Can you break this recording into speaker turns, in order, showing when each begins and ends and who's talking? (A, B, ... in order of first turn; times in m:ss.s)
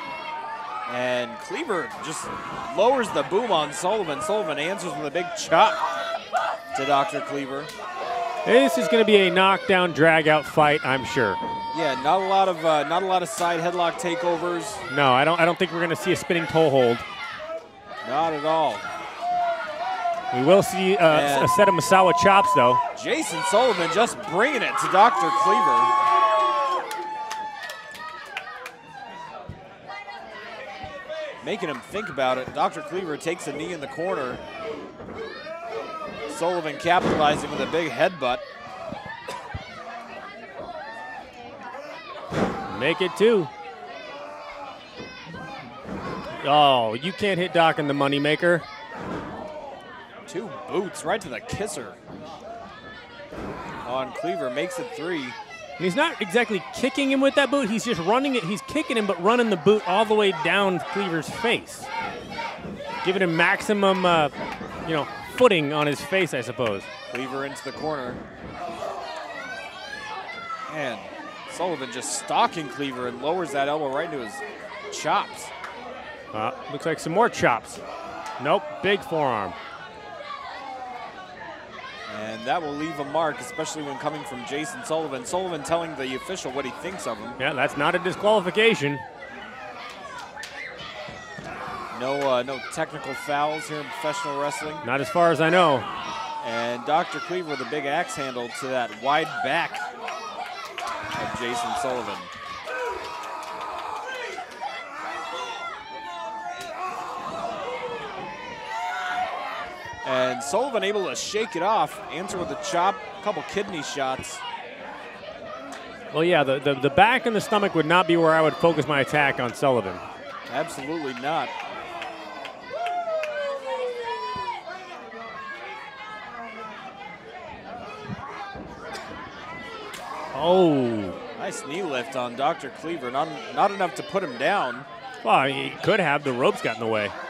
0:00.9-0:05.8 A
0:06.7-0:07.7 A
0:08.4-0:11.4 B
0:11.7-0:14.8 A
0:14.9-0:17.1 B
0:18.0-0:18.8 A
0:20.3-0:22.8 B
0:21.1-0:21.6 A
0:23.0-0:25.9 A
0:31.4-0:34.4 A
0:36.3-0:38.4 A
0:42.7-0:43.5 B
0:46.4-0:48.7 B
0:50.3-0:52.0 A
0:53.8-0:55.4 A
0:55.8-1:01.9 B
1:03.0-1:04.3 B
1:04.9-1:06.9 B
1:07.1-1:08.2 A
1:10.7-1:15.5 A
1:16.3-1:17.8 B
1:18.4-1:19.6 B
1:22.1-1:27.4 A
1:27.4-1:29.0 B
1:31.9-1:34.8 A
1:34.8-1:35.9 B
1:36.4-1:39.9 A
1:41.2-1:42.3 A
1:50.0-1:54.4 A
1:56.1-2:00.0 B
2:00.5-2:01.5 A
2:10.3-2:11.2 B
2:11.4-2:14.9 A
2:15.2-2:17.1 B